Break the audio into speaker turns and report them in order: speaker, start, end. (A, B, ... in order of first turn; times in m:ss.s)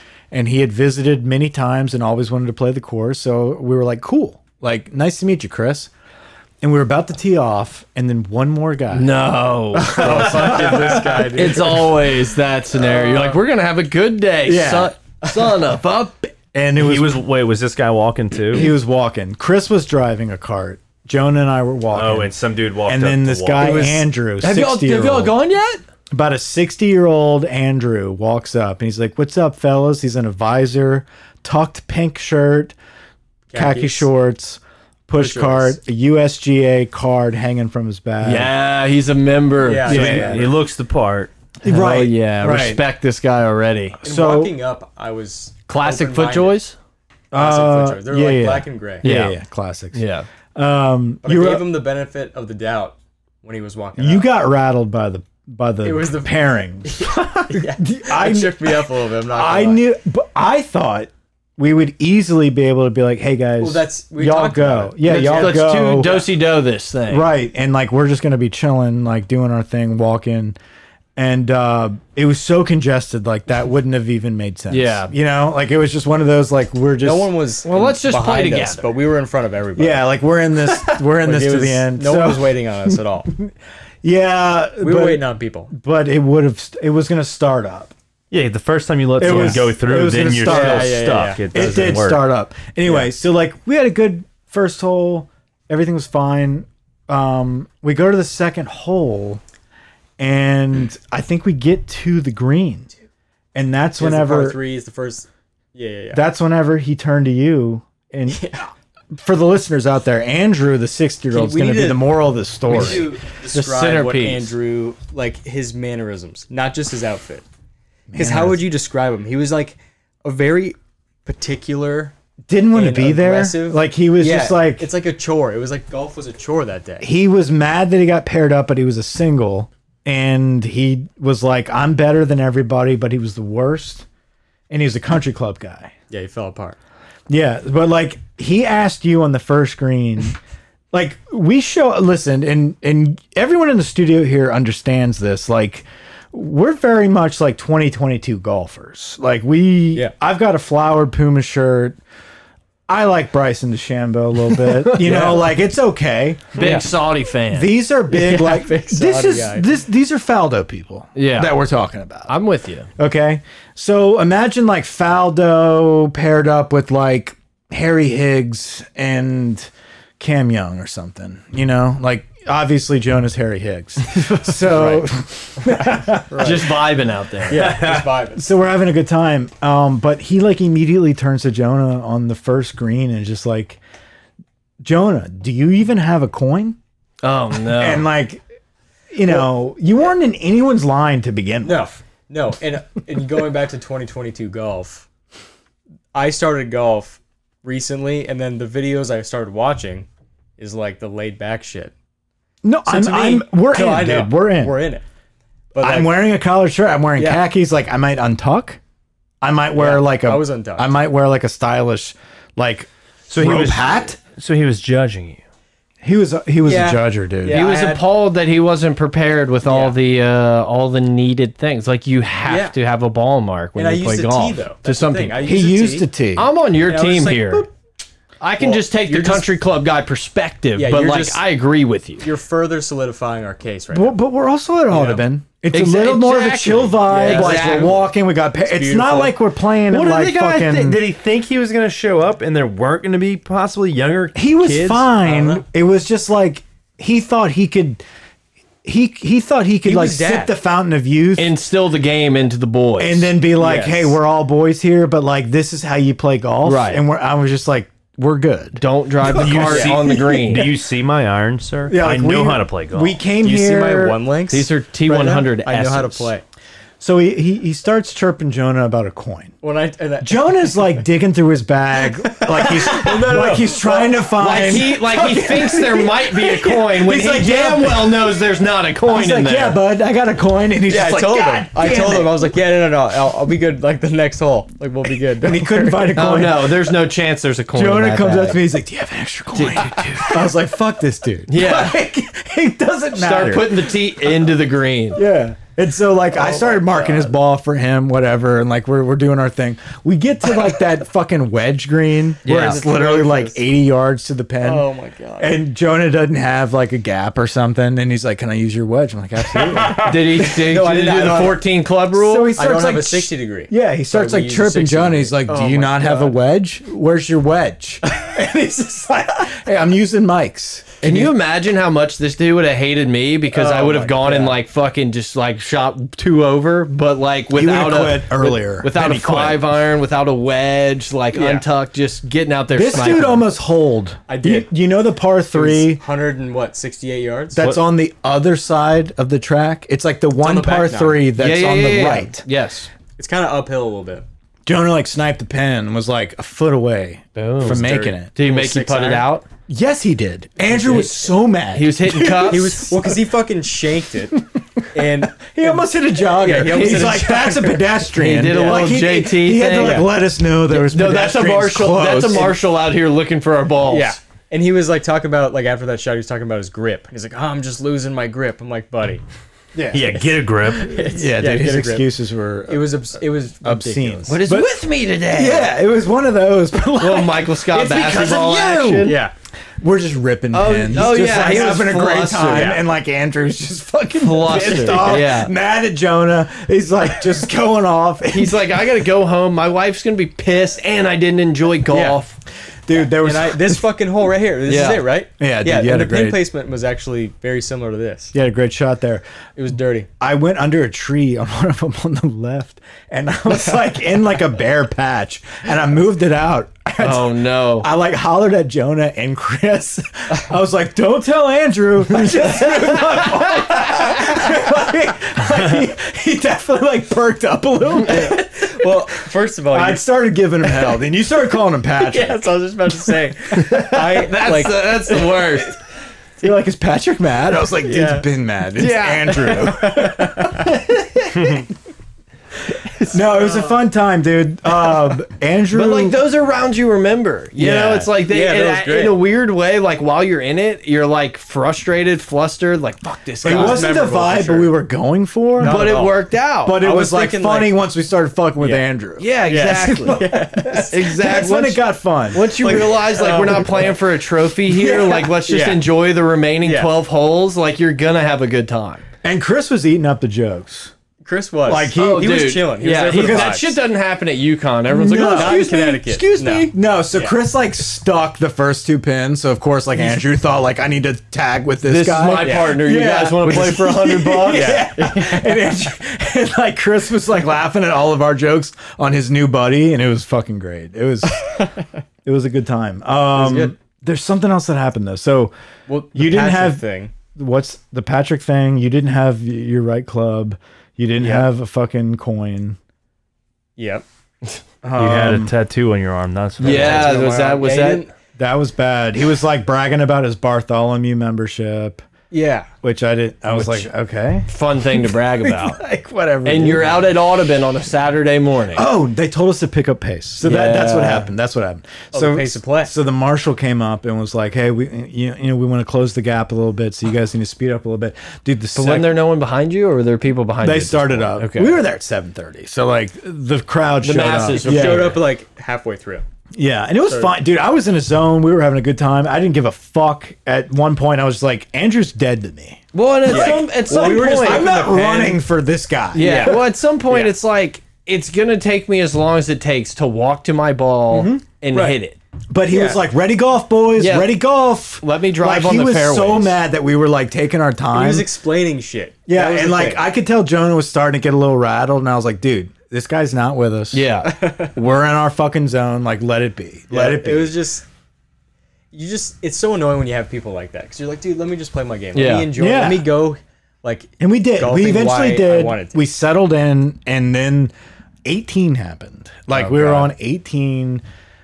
0:00.3-0:05.9 A
0:06.6-0:09.1 A
0:08.9-0:16.3 B
0:09.8-0:12.0 C
0:10.0-0:11.8 A
0:12.8-0:13.4 C
0:14.4-0:15.0 A
0:16.4-0:17.2 A
0:16.8-0:18.7 D
0:18.5-0:25.4 A
0:21.9-0:23.8 D
0:23.6-0:24.1 C
0:23.6-0:23.9 B
0:24.4-0:25.8 B
0:26.1-0:32.8 A
0:33.5-0:34.1 C
0:33.5-0:38.5 A
0:35.2-0:35.8 C
0:38.2-0:40.4 B
0:39.6-0:40.5 C
0:39.9-0:40.5 A
0:39.9-0:41.3 D
0:41.6-0:42.8 A
0:41.7-0:44.0 B
0:44.0-0:44.6 A
0:44.0-0:46.6 C
0:45.7-0:46.8 B
0:47.3-0:50.0 A
0:47.3-0:49.0 C
0:49.0-0:49.4 B
0:49.9-0:50.3 B
0:50.6-0:51.7 A
0:51.2-0:54.3 C
0:54.0-1:06.3 A
0:55.8-0:59.8 C
1:03.6-1:06.3 C
1:05.0-1:07.3 B
1:07.1-1:10.6 A
1:11.2-1:17.3 A
1:14.7-1:15.1 B
1:17.0-1:20.1 C
1:17.6-1:18.9 B
1:19.8-1:27.9 A
1:20.8-1:23.3 C
1:24.8-1:25.7 C
1:28.3-1:32.3 D
1:29.2-1:39.4 A
1:29.2-1:29.6 C
1:30.4-1:31.5 C
1:40.2-1:42.9 A
1:43.6-1:44.6 A
1:44.0-1:46.2 C
1:46.1-1:48.6 A
1:48.3-1:48.7 C
1:49.1-1:53.1 A
1:51.3-1:57.4 C
1:52.7-1:54.5 B
1:58.1-1:58.6 A
1:58.2-2:02.1 C
2:02.5-2:04.9 A
2:02.7-2:07.1 C
2:07.0-2:14.1 A
2:14.7-2:15.9 A
2:16.1-2:16.8 C
2:17.3-2:20.4 A
2:20.9-2:32.0 A
2:32.9-2:36.8 A
2:35.0-2:35.5 C
2:35.0-2:35.4 B
2:36.6-2:36.9 C
2:36.6-2:37.7 B
2:37.5-2:42.3 A
2:38.1-2:39.7 C
2:41.2-2:41.6 B
2:42.3-2:42.9 B
2:43.0-2:56.7 A
2:54.6-2:55.1 C
2:55.6-2:56.8 C
2:56.4-2:57.8 B
2:57.5-2:58.4 C
2:57.5-2:58.1 D
2:58.4-3:03.8 A
3:04.8-3:06.8 A
3:07.2-3:08.1 B
3:07.6-3:08.4 A
3:09.1-3:11.9 A
3:11.6-3:15.1 C
3:16.1-3:20.1 C
3:20.6-3:21.9 C
3:22.6-3:24.8 A
3:22.9-3:25.0 C
3:25.7-3:26.1 C
3:25.8-3:28.8 A
3:27.2-3:27.4 C
3:29.4-3:34.2 A
3:29.8-3:31.0 C
3:33.3-3:35.4 D
3:36.0-3:37.7 A
3:36.6-3:38.0 C
3:37.5-3:45.4 B
3:39.6-3:40.0 C
3:42.4-3:42.8 C
3:43.8-3:46.1 C
3:45.4-3:46.5 A
3:46.4-3:47.7 B
3:46.8-3:47.7 C
3:48.4-3:52.3 B
3:48.6-3:49.5 C
3:50.8-3:51.4 C
3:52.2-3:54.2 C
3:53.9-4:01.0 A
3:54.9-3:55.2 C
3:55.7-3:58.0 B
3:57.0-3:59.4 C
3:59.9-4:05.1 D
4:04.4-4:08.0 A
4:05.2-4:05.6 C
4:08.8-4:11.6 A
4:09.8-4:10.5 C
4:11.4-4:13.3 B
4:13.0-4:20.7 A
4:13.6-4:14.2 C
4:16.6-4:17.1 B
4:18.8-4:20.7 B
4:19.3-4:23.2 D
4:19.7-4:19.9 C
4:21.9-4:24.2 A
4:23.4-4:26.4 C
4:24.5-4:26.3 B
4:27.0-4:29.6 A
4:29.6-4:30.8 C
4:30.2-4:38.4 A
4:32.2-4:34.8 C
4:34.4-4:39.8 B
4:39.1-4:42.6 A
4:40.9-4:46.2 C
4:45.4-4:47.0 A
4:46.1-4:48.6 B
4:47.7-4:54.0 A
4:49.5-4:50.4 B
4:51.5-4:52.0 B
4:53.1-4:55.2 B
4:55.2-5:04.9 A
4:56.3-4:57.3 C
5:02.4-5:02.8 B
5:02.4-5:03.6 C
5:04.6-5:05.6 C
5:05.4-5:10.2 A
5:10.0-5:12.6 B
5:10.4-5:11.7 C
5:12.1-5:21.4 A
5:12.5-5:16.4 C
5:21.0-5:33.5 B
5:23.5-5:24.6 C
5:27.5-5:29.7 A
5:31.3-5:31.7 C
5:32.7-5:36.0 A
5:34.3-5:34.7 C
5:35.5-5:37.6 C
5:37.6-5:42.5 A
5:40.4-5:41.3 C
5:41.4-5:42.9 B
5:43.2-5:44.2 C
5:44.7-5:48.3 A
5:47.4-5:49.4 B
5:47.6-5:49.3 C
5:49.7-5:53.2 A
5:51.7-5:52.9 B
5:52.4-5:54.4 C
5:54.4-6:02.6 A
5:54.9-5:59.1 C
5:58.1-6:00.1 B
5:59.7-6:00.1 C
6:00.7-6:04.2 B
6:03.8-6:09.2 C
6:09.8-6:10.2 A
6:09.9-6:11.0 D
6:10.1-6:12.1 C
6:10.9-6:13.0 A
6:12.7-6:14.4 C
6:13.6-6:19.2 A
6:14.3-6:15.7 B
6:17.0-6:19.2 B
6:19.0-6:19.3 C
6:19.8-6:28.8 A
6:20.5-6:22.8 B
6:21.0-6:21.7 C
6:22.5-6:22.8 C
6:24.2-6:25.5 B
6:24.7-6:25.0 C
6:28.3-6:32.4 B
6:31.9-6:32.2 C
6:32.9-6:33.8 A
6:33.2-6:38.3 C
6:34.7-6:35.1 B
6:35.4-6:36.4 A
6:38.3-6:39.2 A
6:39.6-6:40.1 C
6:40.2-6:58.9 A
6:47.0-6:47.9 B
6:58.1-7:00.1 C
6:59.7-7:02.5 A
7:00.6-7:01.0 C
7:02.0-7:05.7 C
7:03.6-7:05.8 B
7:06.4-7:11.7 A
7:07.7-7:08.3 C
7:08.8-7:09.7 B
7:09.4-7:10.7 C
7:13.1-7:16.2 A
7:13.1-7:13.8 C
7:15.7-7:23.9 B
7:17.6-7:18.1 A
7:18.2-7:19.2 C
7:23.4-7:26.1 A
7:23.4-7:24.7 C
7:25.6-7:27.8 C
7:25.6-7:26.8 B
7:26.6-7:32.9 A
7:28.6-7:28.9 C
7:29.2-7:30.2 B
7:29.5-7:31.0 C
7:30.9-7:39.0 B
7:32.5-7:34.0 C
7:34.7-7:35.9 C
7:36.6-7:36.9 C
7:39.2-7:40.9 A
7:41.2-7:43.8 C
7:41.7-7:43.7 A
7:41.9-7:46.0 B
7:44.9-8:01.6 A
7:45.2-7:47.4 C
7:51.8-7:54.8 B
7:52.4-7:52.8 C
7:54.5-7:55.7 C
8:02.2-8:05.5 A
8:03.3-8:03.7 C
8:05.9-8:07.1 C
8:06.1-8:12.8 A
8:11.2-8:11.5 C
8:13.8-8:14.0 C
8:14.8-8:15.5 A
8:15.0-8:17.1 D
8:16.6-8:18.1 B
8:16.6-8:18.1 C
8:18.4-8:22.0 A
8:22.3-8:22.7 C
8:22.8-8:27.2 A
8:23.5-8:23.9 B
8:24.5-8:25.8 B
8:26.4-8:28.9 B
8:28.7-8:39.2 A
8:30.4-8:31.3 B
8:32.1-8:32.9 C
8:38.7-8:41.8 B
8:40.6-8:45.2 A
8:44.0-8:45.2 B
8:44.5-8:46.2 C
8:46.5-8:56.6 A
8:47.0-8:47.3 C
8:52.9-8:55.2 B
8:53.3-8:55.4 C
8:56.1-9:02.2 B
8:56.2-8:57.3 C
9:01.1-9:01.4 A
9:01.7-9:02.0 C
9:02.5-9:08.3 A
9:02.7-9:03.0 C
9:04.0-9:04.4 B
9:05.0-9:06.6 B
9:07.9-9:10.0 C
9:09.3-9:14.0 A
9:13.9-9:14.3 B
9:14.2-9:14.8 C
9:14.8-9:17.6 A
9:16.9-9:17.8 C
9:18.9-9:26.0 C
9:22.1-9:22.5 B
9:22.6-9:23.1 A
9:24.2-9:27.7 A
9:28.2-9:31.0 A
9:29.5-9:30.1 C